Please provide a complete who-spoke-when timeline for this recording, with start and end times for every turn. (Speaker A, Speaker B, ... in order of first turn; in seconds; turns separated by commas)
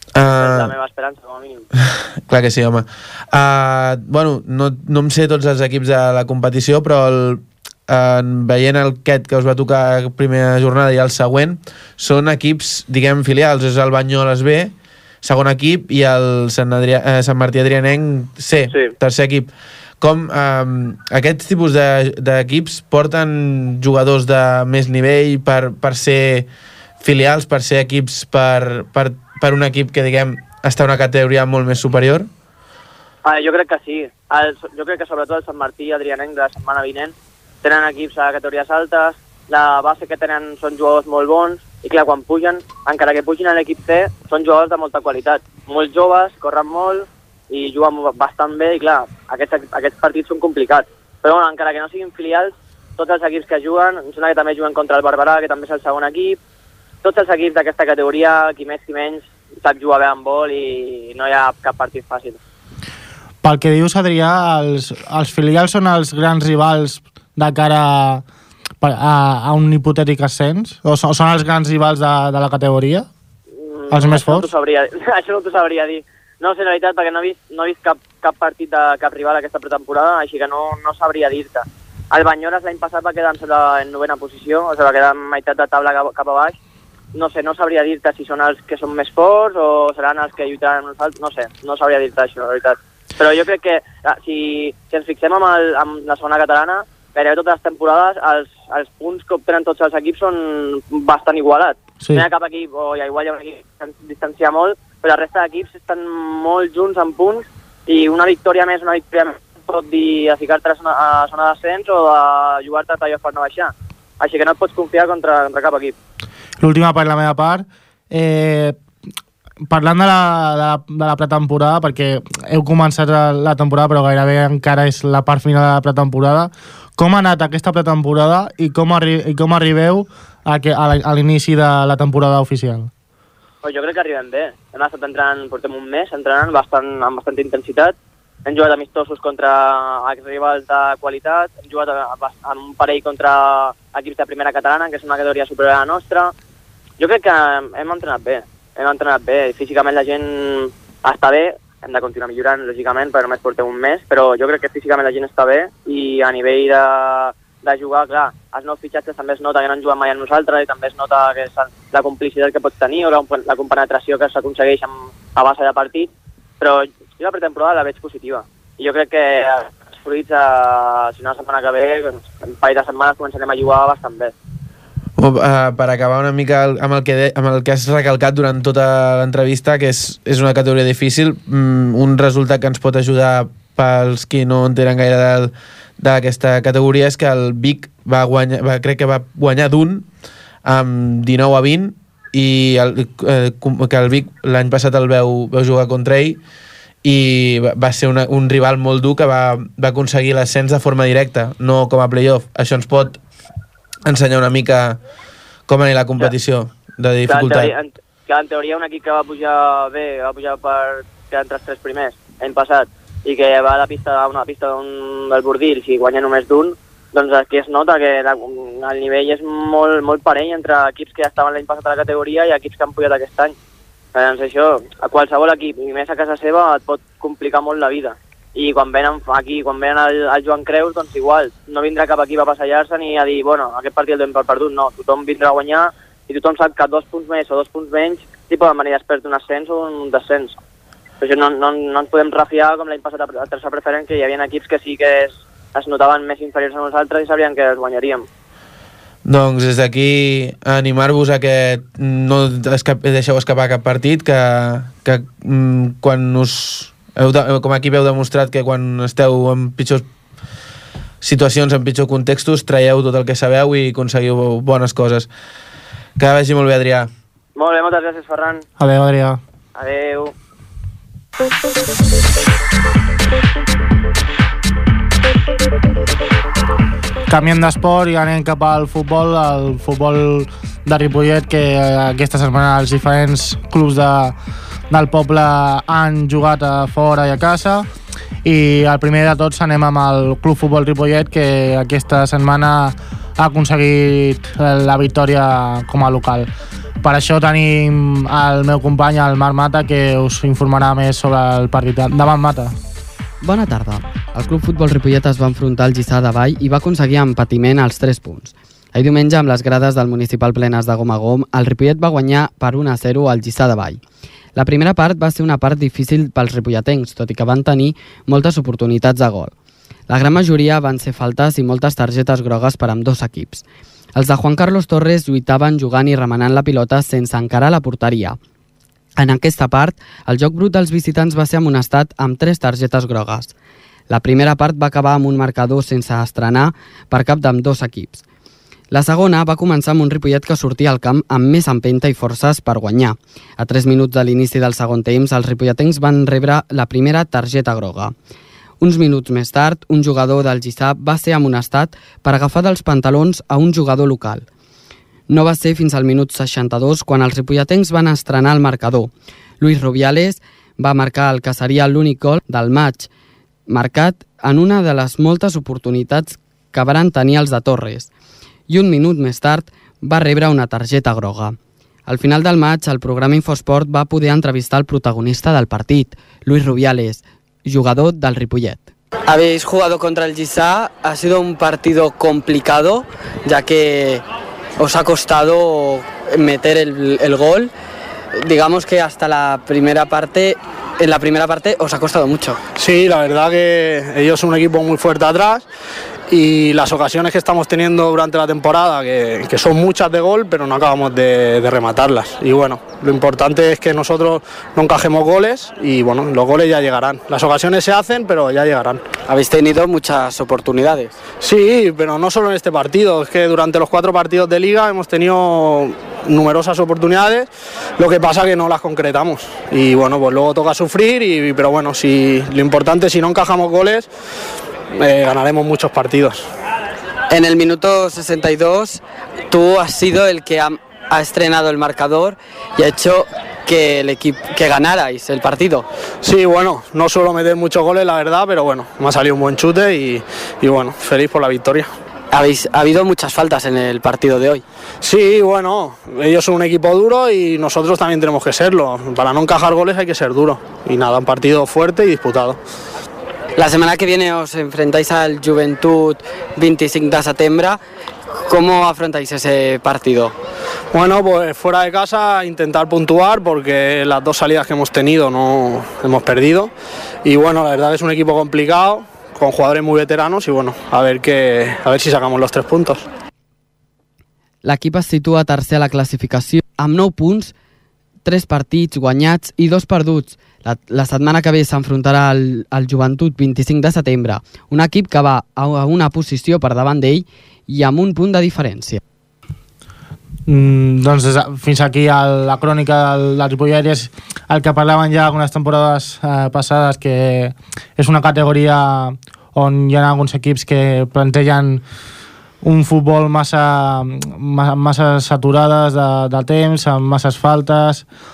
Speaker A: 0.1-0.7, Speaker B: 0.4-1.6, Speaker A: 1.8-26.5, Speaker A: 27.0-32.3, Speaker B: 33.2-56.4, Speaker B: 57.0-62.4, Speaker C: 63.4-68.2, Speaker C: 68.8-73.1, Speaker B: 73.6-86.5, Speaker C: 73.9-74.5, Speaker B: 87.1-116.0, Speaker C: 116.6-118.8, Speaker C: 119.7-132.9, Speaker B: 133.6-146.3, Speaker B: 147.0-174.3, Speaker A: 175.2-190.1, Speaker A: 190.6-196.4, Speaker A: 197.0-203.2, Speaker A: 204.0-205.0, Speaker A: 205.7-207.7, Speaker B: 207.3-223.5, Speaker B: 224.1-240.5, Speaker B: 241.2-248.2, Speaker A: 249.2-260.1, Speaker A: 261.2-265.3, Speaker A: 266.2-267.1, Speaker B: 267.6-268.6, Speaker C: 268.8-269.4, Speaker B: 269.8-270.3, Speaker C: 277.3-284.3, Speaker C: 284.9-287.9, Speaker C: 288.4-296.5, Speaker C: 297.0-302.7, Speaker D: 303.4-314.0, Speaker D: 314.6-319.5, Speaker D: 320.1-323.6, Speaker D: 324.1-328.4, Speaker D: 329.2-333.5, Speaker D: 334.1-338.2, Speaker D: 338.9-348.1, Speaker D: 348.8-354.4, Speaker D: 355.3-359.1, Speaker D: 359.6-363.1, Speaker D: 363.7-368.1, Speaker D: 368.7-378.9, Speaker E: 379.3-384.2, Speaker E: 384.8-387.7, Speaker E: 388.4-392.6, Speaker F: 392.8-395.7, Speaker F: 396.3-409.0, Speaker E: 409.3-411.2, Speaker F: 411.4-424.1, Speaker F: 424.9-426.4, Speaker E: 427.3-435.9, Speaker F: 436.2-441.9, Speaker E: 442.3-444.6, Speaker F: 445.0-452.6, Speaker E: 453.6-457.8, Speaker E: 458.5-460.3, Speaker F: 460.9-466.7, Speaker F: 467.2-473.1, Speaker D: 474.6-477.5, Speaker D: 478.2-489.0, Speaker C: 490.5-501.8, Speaker C: 502.6-508.0